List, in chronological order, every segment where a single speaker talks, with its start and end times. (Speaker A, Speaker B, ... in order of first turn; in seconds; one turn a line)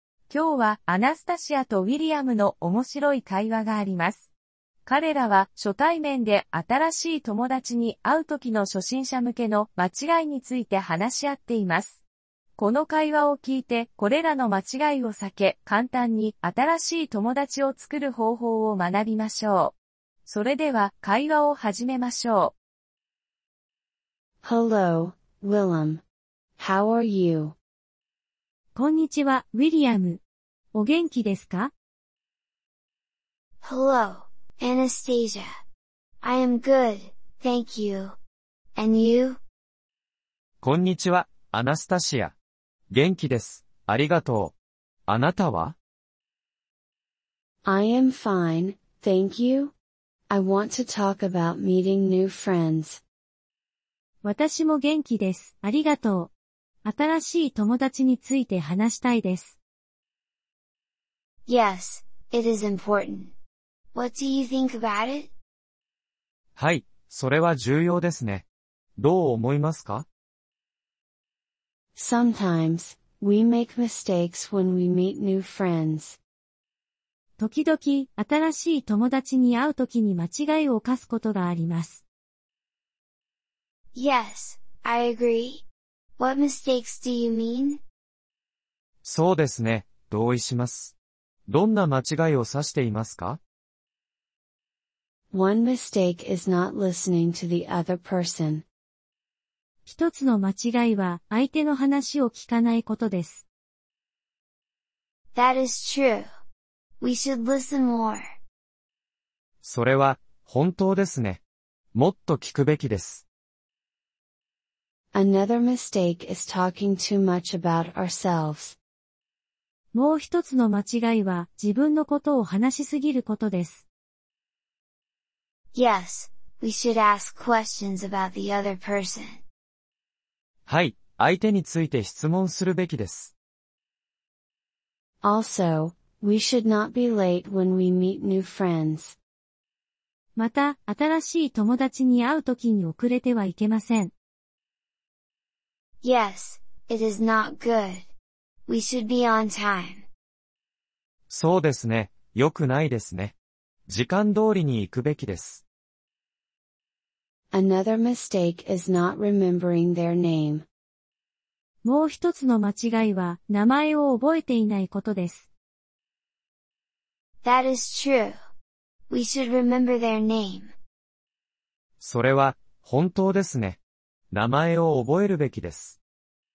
Speaker A: 0.3-4.3
Speaker A: 4.8-12.0
Speaker A: 12.6-19.7
Speaker A: 20.2-22.5
Speaker B: 24.4-26.0
Speaker B: 26.6-27.6
Speaker C: 28.7-30.2
Speaker C: 30.7-31.7
Speaker D: 33.6-35.5
Speaker D: 36.2-38.1
Speaker D: 38.8-39.4
Speaker E: 40.6-42.3
Speaker E: 42.9-44.5
Speaker E: 45.1-45.8
Speaker B: 47.6-49.7
Speaker B: 50.3-53.0
Speaker C: 54.2-56.3
Speaker C: 56.8-59.5
Speaker D: 61.5-63.3
Speaker D: 63.9-65.3
Speaker E: 66.5-68.4
Speaker E: 69.0-70.0
Speaker B: 71.9-76.2
Speaker C: 77.4-82.0
Speaker D: 84.0-85.6
Speaker D: 86.2-87.8
Speaker E: 89.0-90.9
Speaker E: 91.5-93.4
Speaker B: 95.3-98.6
Speaker C: 99.8-103.4
Speaker D: 105.3-106.2
Speaker D: 107.0-108.2
Speaker E: 109.6-111.4
Speaker E: 111.9-113.2
Speaker B: 115.1-118.8
Speaker C: 119.9-123.8
Speaker D: 125.7-129.4
Speaker E: 130.7-133.3
Speaker B: 135.2-139.2
Speaker C: 140.4-144.1
Speaker D: 146.0-148.0
Speaker D: 148.7-150.0
Speaker E: 151.3-153.3
Speaker E: 153.9-155.6
Speaker B: 157.5-160.6
Speaker C: 161.8-165.5
Speaker D: 167.4-168.3
Speaker D: 169.1-170.7
Speaker E: 172.0-173.8
Speaker E: 174.3-176.0